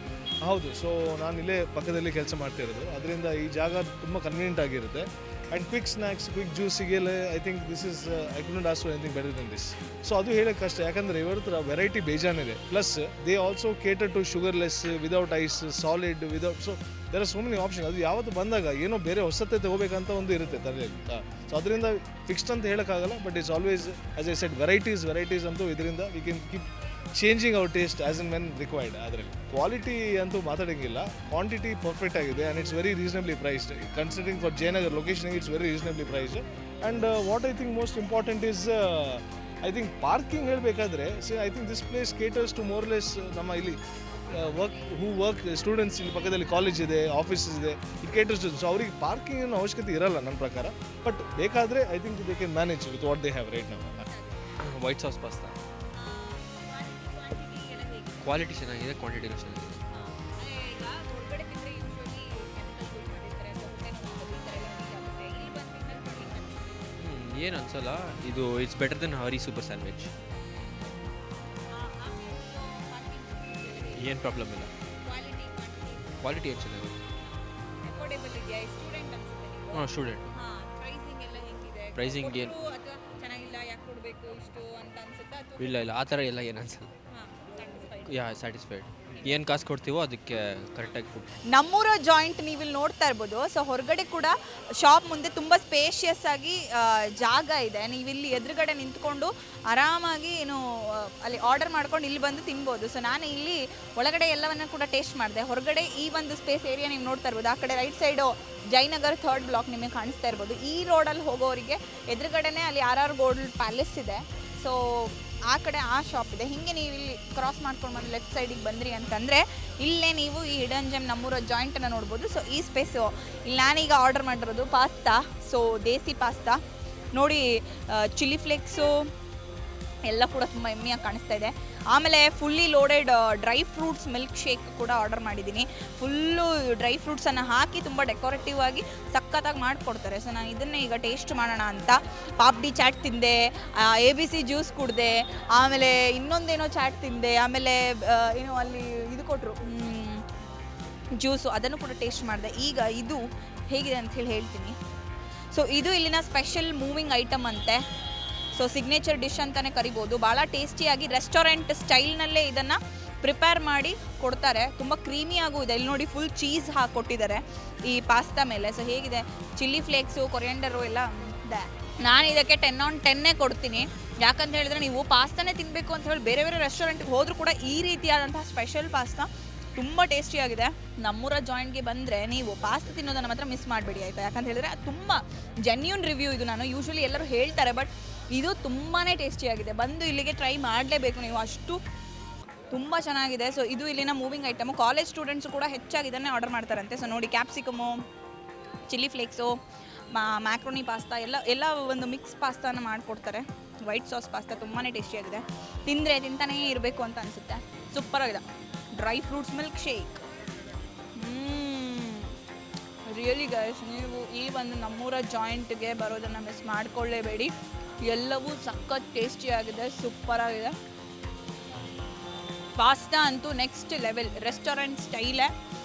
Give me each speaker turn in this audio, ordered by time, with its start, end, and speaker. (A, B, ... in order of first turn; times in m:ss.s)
0:00.4-0:54.0 A
0:54.0-0:54.6 B
0:54.6-0:55.6 C
0:55.9-0:58.3 B
0:58.2-0:59.8 C
0:59.9-1:06.9 B
1:07.0-1:10.1 C
1:11.7-1:14.2 B
1:14.0-1:14.7 C
1:15.0-1:16.2 B
1:16.2-1:17.0 C
1:17.8-1:26.0 B
1:19.7-1:20.3 C
1:22.0-1:22.5 C
1:25.6-1:26.9 C
1:27.1-1:28.3 B
1:28.1-1:31.3 C
1:31.5-2:06.6 B
2:07.1-2:09.0 B
2:10.1-2:30.2 B
2:31.2-2:34.8 B
2:35.5-2:37.8 B
2:38.5-3:11.8 B
3:12.7-3:18.0 B
3:18.9-3:19.6 B
3:20.1-3:28.4 B
3:29.0-3:30.2 B
3:31.2-3:32.4 B
3:33.0-3:37.5 B
3:38.0-3:40.7 B
3:42.8-3:45.5 B